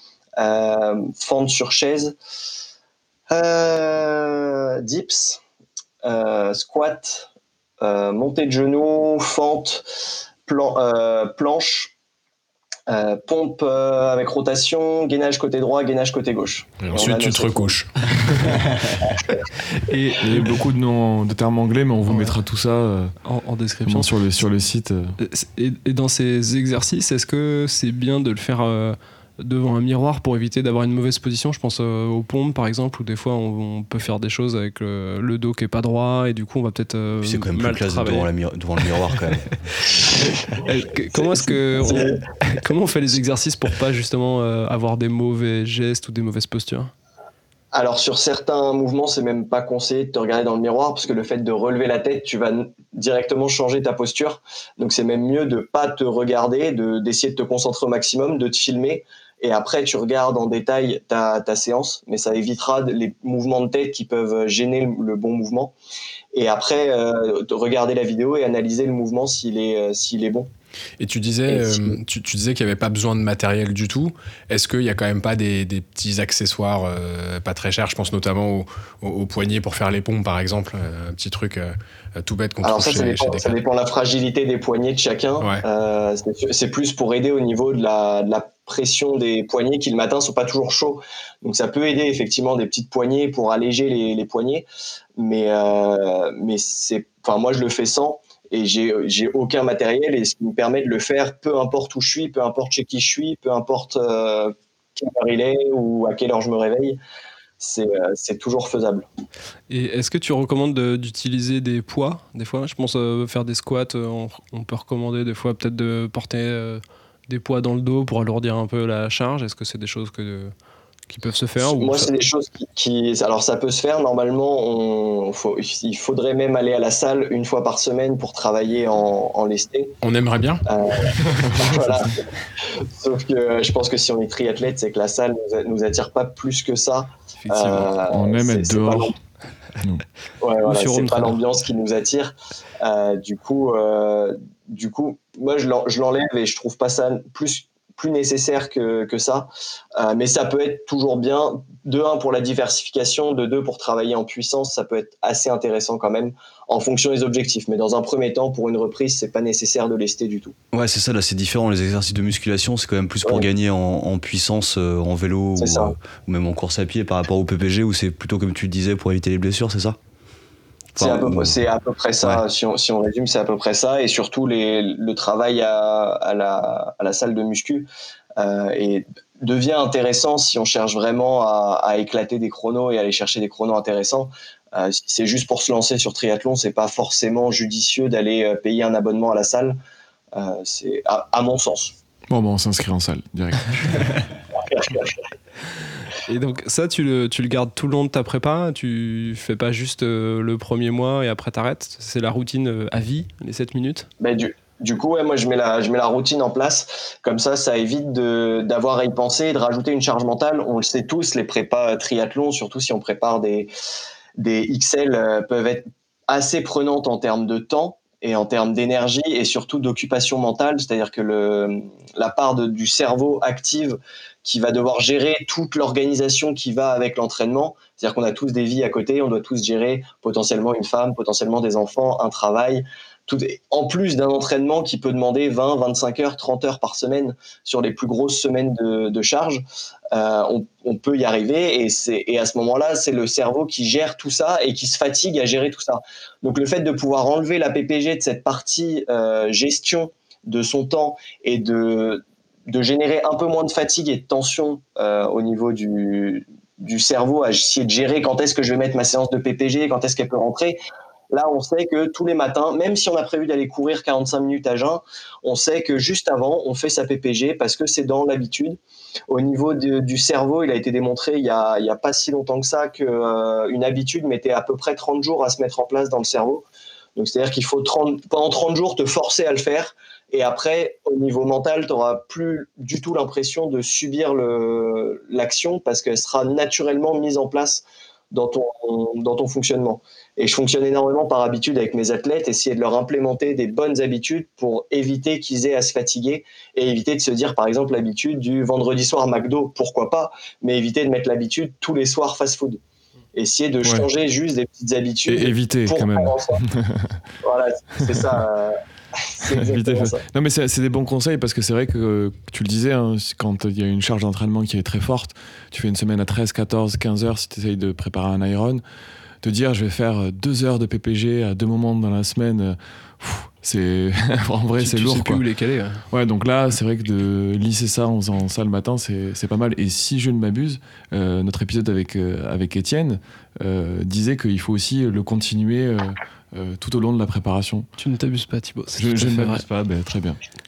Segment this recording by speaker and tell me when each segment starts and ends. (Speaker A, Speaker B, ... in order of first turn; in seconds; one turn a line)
Speaker A: 0.4-2.1
Speaker A: 3.3-5.4
Speaker A: 6.0-7.3
Speaker A: 7.8-9.9
Speaker A: 10.5-11.9
Speaker A: 12.9-17.8
Speaker B: 16.8-18.1
Speaker A: 19.0-19.4
Speaker C: 19.7-20.5
Speaker D: 20.2-23.1
Speaker C: 22.1-22.4
Speaker C: 23.2-24.2
Speaker D: 23.8-25.2
Speaker C: 25.2-38.3
Speaker E: 37.2-39.6
Speaker C: 39.8-46.9
Speaker A: 41.2-42.2
Speaker A: 47.7-65.7
Speaker A: 66.3-70.5
Speaker B: 71.0-83.6
Speaker A: 71.5-72.0
Speaker A: 82.6-94.7
Speaker A: 95.2-107.0
Speaker A: 107.6-109.1
Speaker C: 109.7-120.5
Speaker C: 121.1-122.1
Speaker A: 121.6-130.0
Speaker B: 130.0-130.6
Speaker A: 130.7-139.2
Speaker D: 131.3-132.0
Speaker C: 137.4-138.0
Speaker D: 138.1-139.2
Speaker A: 140.4-160.6
Speaker C: 140.6-141.4
Speaker E: 160.7-170.0
Speaker A: 163.2-163.5
Speaker A: 165.6-165.9
Speaker A: 171.0-189.8
Speaker E: 171.0-171.6
Speaker A: 190.3-191.9
Speaker D: 192.3-194.2
Speaker A: 194.7-195.1
Speaker C: 196.2-204.1
Speaker A: 204.2-213.7
Speaker A: 214.4-260.8
Speaker A: 261.3-268.8
Speaker A: 269.3-276.6
Speaker A: 277.2-302.8
Speaker A: 303.4-306.6
Speaker D: 305.3-307.2
Speaker A: 307.4-310.2
Speaker D: 309.5-318.8
Speaker D: 319.4-325.4
Speaker C: 324.8-326.1
Speaker D: 326.1-337.9
Speaker C: 338.0-339.6
Speaker D: 339.0-340.4